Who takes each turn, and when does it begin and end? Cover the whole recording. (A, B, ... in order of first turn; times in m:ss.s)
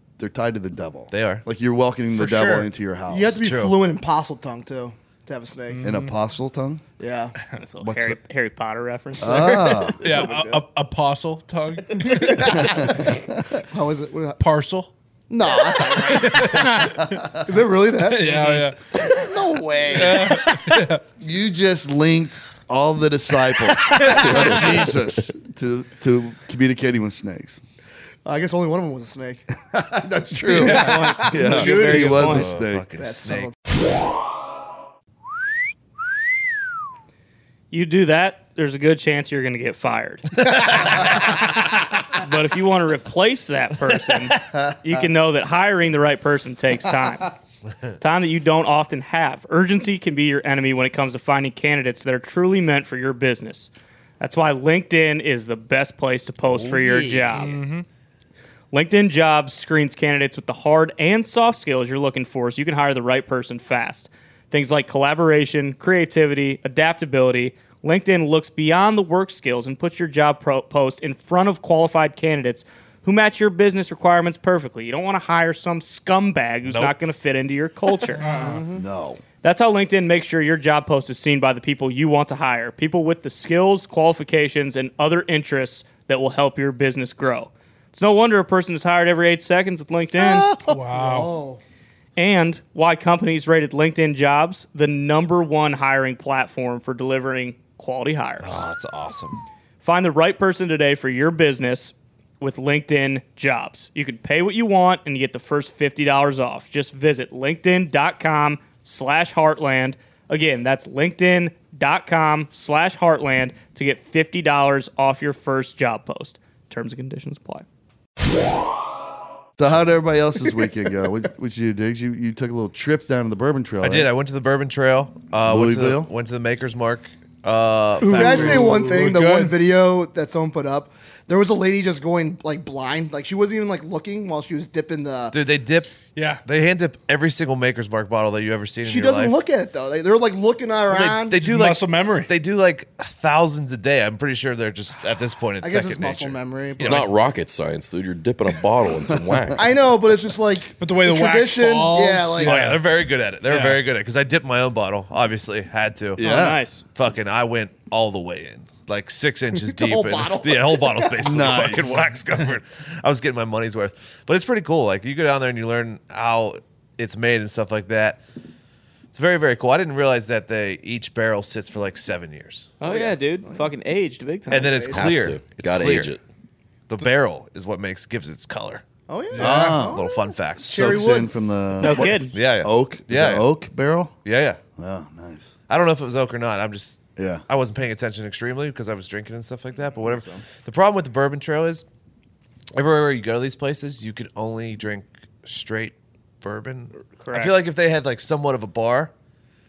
0:00.2-0:03.4 A
0:01.1-0:01.4 B
0:02.1-0:02.7 C
0:03.1-0:05.8 D
0:03.4-0:03.8 B
0:05.7-0:06.1 C
0:05.8-0:06.8 A
0:07.0-0:07.4 D
0:07.5-0:09.9 E
0:07.8-0:08.2 A
0:09.2-0:10.0 A
0:09.4-0:10.6 D
0:10.0-0:12.9 C
0:12.0-0:13.0 D
0:13.7-0:14.4 D
0:14.4-0:14.9 C
0:15.3-0:20.8 D
0:15.9-0:17.4 C
0:18.0-0:18.9 C
0:19.9-0:21.0 C
0:21.2-0:27.6 A
0:28.2-0:29.4 D
0:29.7-0:32.8 A
0:30.4-0:32.4 D
0:30.5-0:32.5 E
0:31.8-0:33.5 B
0:33.0-0:33.5 D
0:37.7-0:47.3 E
0:48.0-0:57.8 E
0:56.5-0:57.5 D
0:57.4-0:57.8 C
0:58.7-1:18.4 E
1:16.7-1:17.0 B
1:18.2-1:18.6 C
1:18.3-1:18.8 D
1:18.7-1:19.2 A
1:19.4-1:30.6 E
1:30.6-1:31.3 C
1:30.7-1:31.6 D
1:32.2-1:38.6 E
1:38.4-1:39.4 B
1:39.8-1:57.6 E
1:59.6-2:04.1 A
2:03.8-2:08.9 B
2:05.4-2:06.1 A
2:08.0-2:09.6 C
2:08.0-2:15.4 D
2:15.3-2:19.4 B
2:16.1-2:16.4 C
2:18.8-2:21.4 D
2:20.9-2:27.1 B
2:21.4-2:22.3 C
2:25.6-2:27.0 D
2:26.8-2:29.6 F
2:29.6-2:32.6 D
2:30.8-2:32.8 C
2:32.4-2:48.2 B
2:33.5-2:33.8 C
2:36.2-2:36.6 A
2:36.2-2:36.8 E
2:39.6-2:41.5 D
2:41.2-2:42.0 A
2:49.1-2:52.7 B
2:52.8-2:54.9 E
2:52.8-2:53.7 D
2:54.5-2:56.2 B
2:54.6-2:55.0 D
2:54.9-2:56.2 F
2:56.9-2:58.8 B
2:59.1-3:00.1 D
2:59.3-2:59.8 C
2:59.4-3:00.0 A
2:59.9-3:01.0 B
3:00.6-3:01.3 D
3:00.6-3:04.1 A
3:01.8-3:02.4 E
3:01.8-3:03.5 B
3:04.2-3:04.6 B
3:04.8-3:05.5 A
3:05.7-3:11.8 B
3:07.2-3:07.4 A
3:10.0-3:10.4 D
3:12.7-3:19.1 B
3:17.2-3:17.6 E